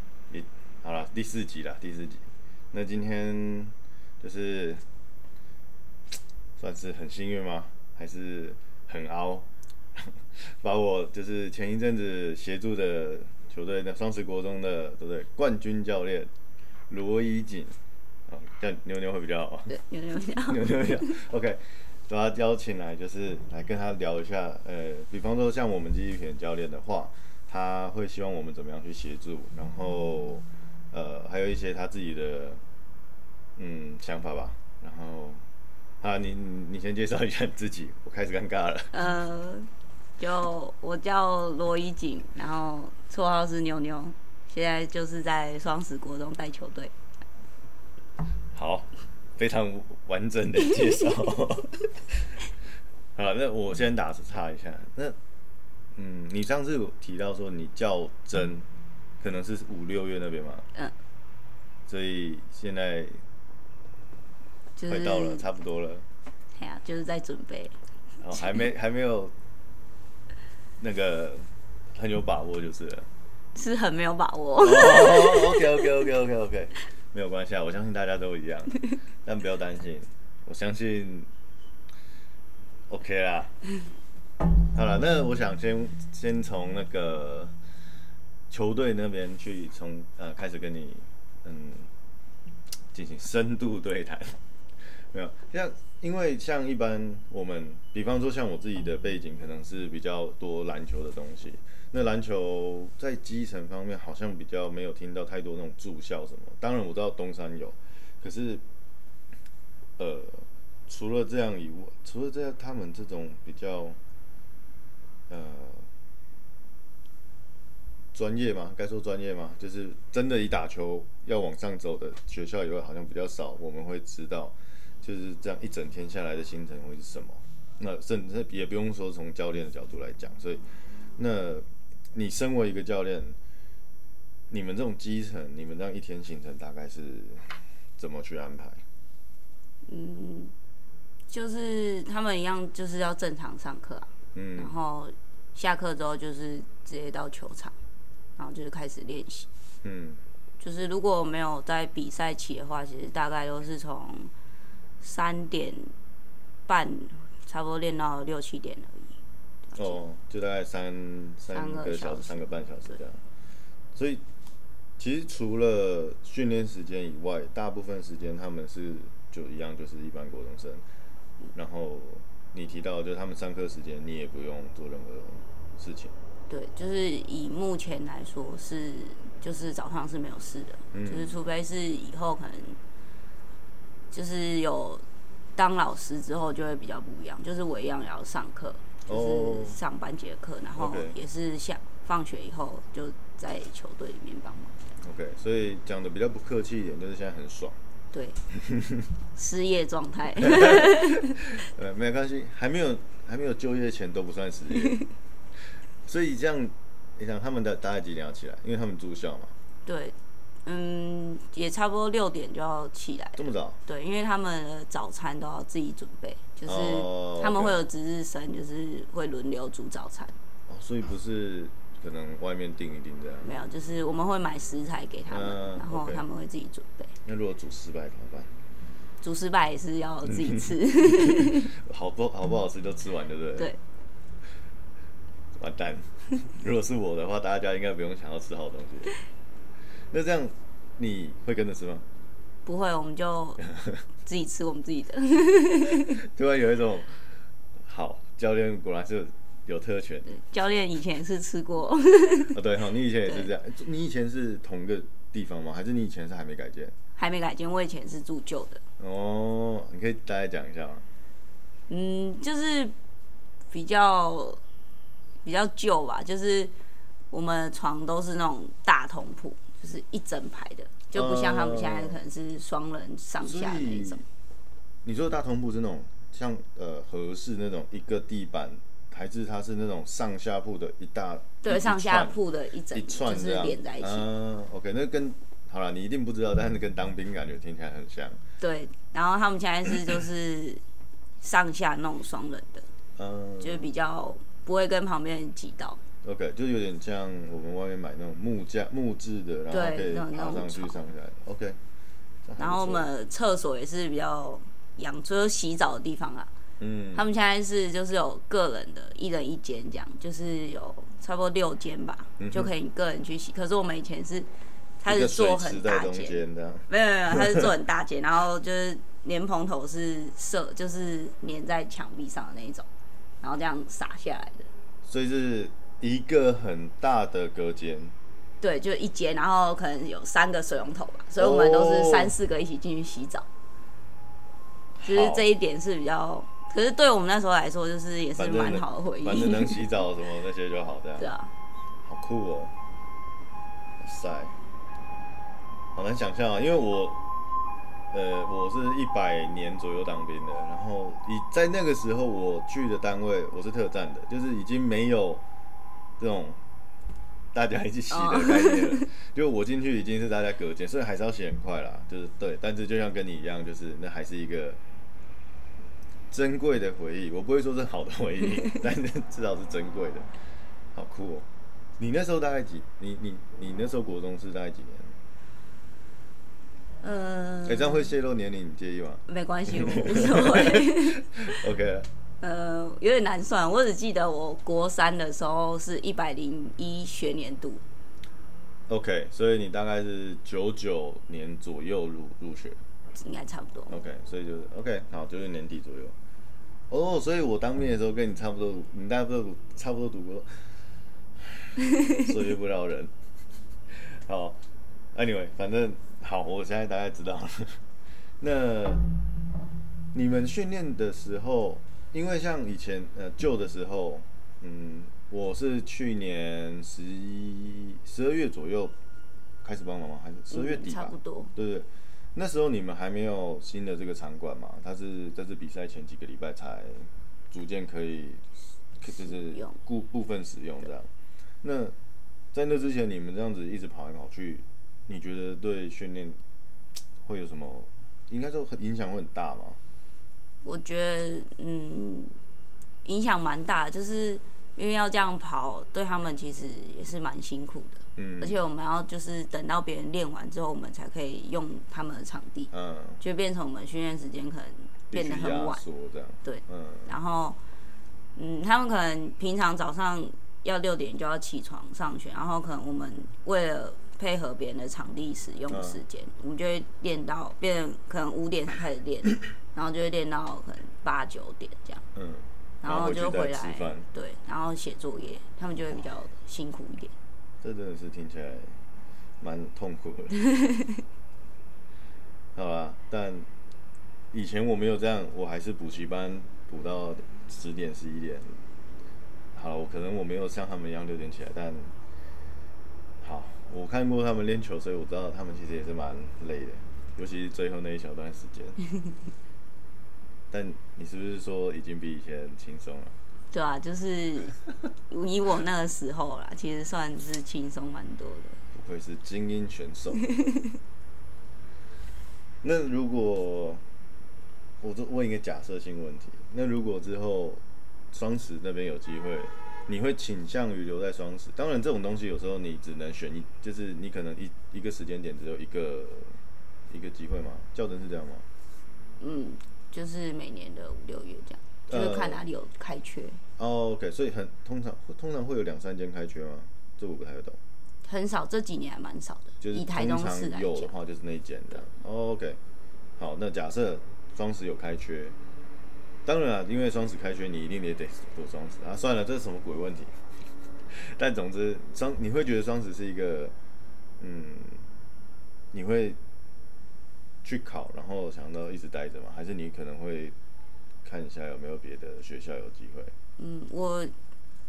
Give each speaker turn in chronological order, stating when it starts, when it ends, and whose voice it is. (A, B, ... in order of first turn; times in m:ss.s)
0:00.3-0:04.8 A
0:06.6-0:16.3 A
0:16.9-0:17.8 A
0:18.3-0:19.8 A
0:19.7-0:21.1 B
0:20.5-0:32.6 A
0:33.6-0:35.4 A
0:36.0-0:39.0 A
0:38.9-0:46.9 B
0:48.5-0:52.4 A
0:53.2-0:55.2 A
0:55.9-0:58.7 A
0:59.2-1:00.6 A
1:01.9-1:03.2 A
1:04.8-1:05.4 B
1:04.9-1:06.0 A
1:06.5-1:07.8 B
1:08.2-1:09.3 A
1:08.3-1:08.6 B
1:10.8-1:13.1 A
1:13.5-1:15.8 B
1:14.6-1:21.3 A
1:22.9-1:23.5 A
1:24.7-1:27.5 A
1:28.5-1:31.9 A
1:32.9-1:34.4 A
1:35.0-1:48.6 A
1:50.0-1:54.0 A
1:55.3-1:55.9 A
1:58.1-2:10.6 A
2:11.2-2:13.4 A
2:14.5-2:18.8 A
2:19.8-2:20.5 B
2:21.3-2:27.7 B
2:24.3-2:24.7 A
2:28.4-2:29.5 B
2:29.8-2:30.2 A
2:30.6-2:34.3 B
2:35.0-2:35.9 B
2:36.7-2:39.2 B
2:39.7-2:43.2 A
2:41.5-2:42.9 B
2:43.9-2:44.2 A
2:45.0-2:50.8 A
2:51.5-2:56.1 A
2:56.5-3:02.8 B
3:00.9-3:01.4 A
3:04.1-3:05.0 B
3:05.6-3:14.8 B
3:09.0-3:09.8 A
3:10.8-3:11.2 A
3:15.0-3:17.8 A
3:18.1-3:18.4 B
3:18.5-3:19.1 A
3:19.3-3:21.3 B
3:20.4-3:25.0 A
3:26.0-3:29.5 A
3:29.8-3:40.3 B
3:33.4-3:33.8 A
3:36.6-3:37.8 A
3:40.7-3:43.5 A
3:43.4-3:47.1 B
3:45.3-3:46.2 A
3:47.2-3:48.5 A
3:49.2-3:51.7 B
3:50.4-3:53.7 A
3:55.6-3:59.2 A
4:00.1-4:02.0 A
4:02.6-4:03.6 B
4:04.2-4:06.2 B
4:06.0-4:10.4 A
4:10.3-4:12.6 B
4:12.5-4:16.9 A
4:17.2-4:18.8 B
4:19.0-4:21.0 A
4:21.9-4:22.9 B
4:23.7-4:24.6 B
4:25.4-4:26.7 B
4:27.3-4:34.2 B
4:31.1-4:32.2 A
4:33.4-4:34.2 A
4:35.0-4:42.4 A
4:41.6-4:44.2 B
4:42.9-4:48.4 A
4:48.6-4:50.8 B
4:51.4-4:52.9 B
4:53.2-4:53.9 A
4:53.6-4:56.0 B
4:56.2-5:01.8 A
4:59.7-5:00.9 B
5:02.4-5:03.1 A
5:02.6-5:06.5 B
5:06.8-5:07.2 A
5:07.1-5:14.5 B
5:12.4-5:12.7 A
5:15.0-5:22.8 B
5:15.0-5:17.7 A
5:23.4-5:24.7 B
5:25.0-5:28.1 A
5:28.6-5:33.4 B
5:31.4-5:32.3 A
5:35.0-5:35.4 A
5:35.0-5:39.8 B
5:38.4-5:41.3 A
5:41.2-5:41.5 B
5:42.0-5:42.7 A
5:44.0-5:44.6 A
5:45.9-5:47.2 A
5:48.1-5:55.4 A
5:56.2-5:56.6 A
5:57.5-6:04.8 A
5:58.1-5:59.0 B
6:06.3-6:10.3 A
6:10.9-6:11.5 A
6:12.0-6:15.1 A
6:17.0-6:18.1 B
6:17.6-6:22.1 A
6:19.3-6:21.6 B
6:22.4-6:27.8 B
6:28.9-6:32.8 A
6:33.2-6:34.0 B
6:33.9-6:36.1 A
6:36.9-6:40.7 A
6:41.4-6:43.1 A
6:43.9-6:44.6 A
6:45.1-6:47.8 A
6:48.4-6:49.0 A
6:50.1-6:58.9 A
6:59.6-7:08.4 A
7:00.5-7:01.5 B
7:09.0-7:11.1 A
7:09.2-7:09.8 B
7:11.6-7:11.9 A
7:12.5-7:16.4 A
7:17.2-7:19.8 A
7:20.6-7:22.3 B
7:23.0-7:35.8 B
7:28.2-7:28.6 A
7:32.7-7:33.2 A
7:35.1-7:37.1 A
7:36.4-7:37.6 B
7:38.3-7:52.0 B
7:45.7-7:46.0 A
7:52.1-7:54.0 A
7:52.8-7:57.1 B
7:57.6-7:58.8 A
7:59.4-8:00.4 A
8:00.4-8:01.0 B
8:02.5-8:03.5 A
8:04.3-8:08.6 A
8:09.5-8:11.9 A
8:13.2-8:18.8 A
8:20.5-8:23.2 A
8:23.5-8:24.6 B
8:25.1-8:28.6 B
8:28.7-8:30.3 A
8:30.4-8:30.7 B
8:32.6-8:33.8 A
8:34.8-8:48.4 A
8:49.2-8:53.4 B
8:51.9-8:52.4 A
8:53.6-8:57.6 A
8:58.0-9:00.9 B
8:59.6-9:02.6 A
9:03.2-9:05.3 A
9:06.2-9:10.2 A
9:10.9-9:13.5 A
9:14.2-9:14.8 A
9:15.7-9:16.2 A
9:17.4-9:20.4 A
9:21.0-9:23.1 A
9:23.4-9:24.1 B